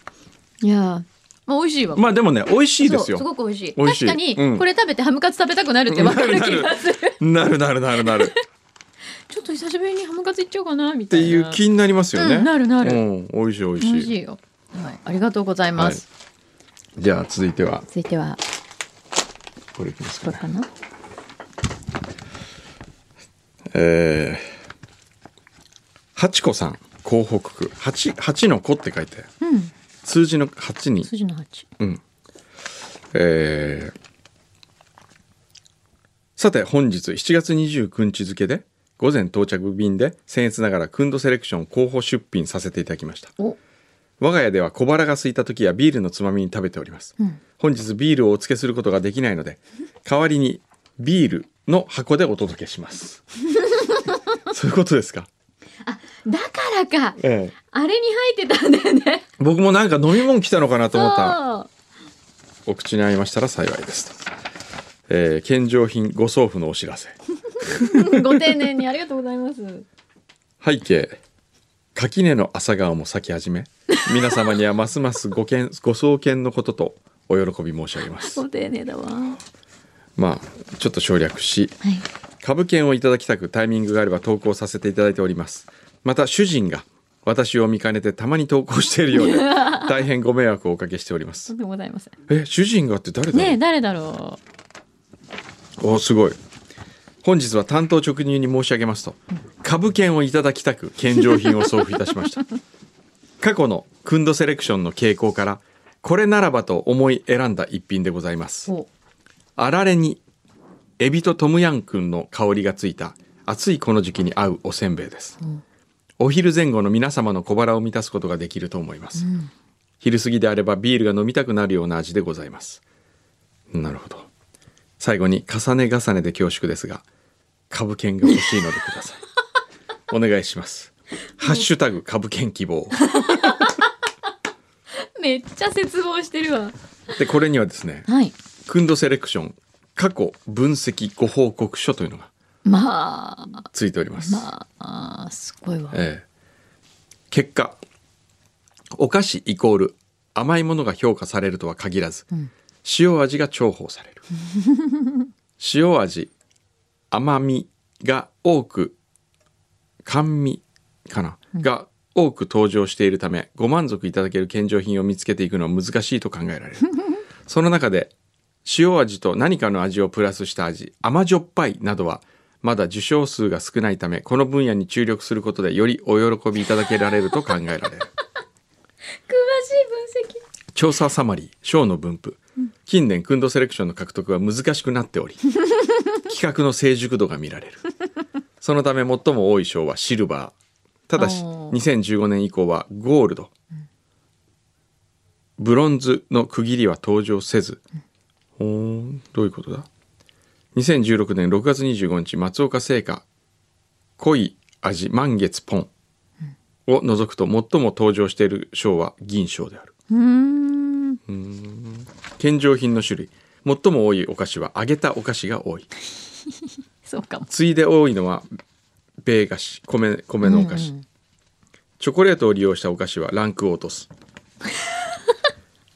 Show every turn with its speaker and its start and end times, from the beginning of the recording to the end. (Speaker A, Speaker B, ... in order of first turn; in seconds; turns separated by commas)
Speaker A: 0.6-2.1, Speaker B: 1.9-4.7, Speaker A: 2.8-7.2, Speaker B: 5.9-8.3, Speaker A: 8.0-8.4, Speaker A: 9.3-11.6, Speaker B: 11.1-14.1, Speaker A: 12.2-13.0, Speaker A: 13.8-16.1, Speaker B: 15.8-16.0, Speaker B: 17.0-17.9, Speaker A: 17.9-18.4, Speaker B: 19.8-20.4, Speaker A: 20.2-20.7, Speaker B: 23.7-24.5, Speaker B: 26.1-29.3, Speaker A: 29.4-29.7, Speaker B: 30.0-31.1, Speaker A: 31.0-31.7, Speaker B: 33.1-34.0, Speaker B: 36.4-43.3, Speaker B: 44.2-53.2, Speaker A: 53.5-54.4, Speaker B: 54.5-55.3, Speaker A: 55.9-59.3, Speaker B: 57.2-57.5, Speaker B: 59.4-61.4, Speaker A: 60.9-61.7, Speaker B: 62.7-64.2, Speaker B: 65.1-68.6, Speaker A: 67.5-69.8, Speaker B: 70.6-71.2, Speaker B: 72.0-78.4, Speaker A: 73.9-74.4, Speaker A: 78.2-79.4, Speaker B: 80.2-81.8, Speaker B: 82.4-91.5, Speaker A: 89.1-90.0, Speaker A: 91.5-92.2, Speaker B: 92.3-93.6, Speaker A: 93.3-94.4, Speaker B: 95.8-96.4, Speaker B: 97.2-102.4, Speaker A: 101.3-102.1, Speaker B: 103.4-108.7, Speaker B: 109.6-110.2, Speaker B: 111.0-115.4, Speaker B: 116.2-119.3, Speaker A: 119.2-119.5, Speaker B: 120.0-122.8, Speaker B: 123.7-124.3, Speaker B: 125.0-127.0, Speaker B: 127.7-129.2, Speaker A: 128.3-128.5, Speaker B: 130.1-133.7, Speaker A: 133.0-133.8, Speaker A: 135.0-136.8, Speaker B: 137.2-138.1, Speaker A: 138.1-138.3, Speaker B: 138.7-142.3, Speaker A: 142.7-143.7, Speaker B: 143.7-144.5, Speaker A: 144.2-146.0, Speaker B: 145.9-146.2, Speaker B: 147.3-147.8, Speaker B: 148.9-152.3, Speaker B: 152.8-154.2, Speaker A: 154.5-155.3, Speaker B: 155.6-156.3, Speaker B: 157.1-159.0, Speaker B: 160.0-166.9, Speaker A: 166.9-167.2, Speaker B: 167.5-168.1, Speaker B: 168.7-178.1, Speaker A: 179.3-180.4, Speaker B: 180.8-185.4, Speaker B: 186.3-187.8, Speaker B: 188.6-190.5, Speaker B: 191.1-193.5, Speaker A: 191.2-191.8, Speaker B: 195.6-197.8, Speaker B: 198.6-199.9, Speaker B: 200.7-203.2, Speaker B: 204.2-205.9, Speaker B: 206.9-209.9, Speaker A: 210.1-211.2, Speaker B: 211.3-215.9, Speaker A: 217.1-217.5, Speaker B: 217.5-218.5, Speaker B: 219.2-220.9, Speaker A: 220.4-221.1, Speaker B: 222.0-224.1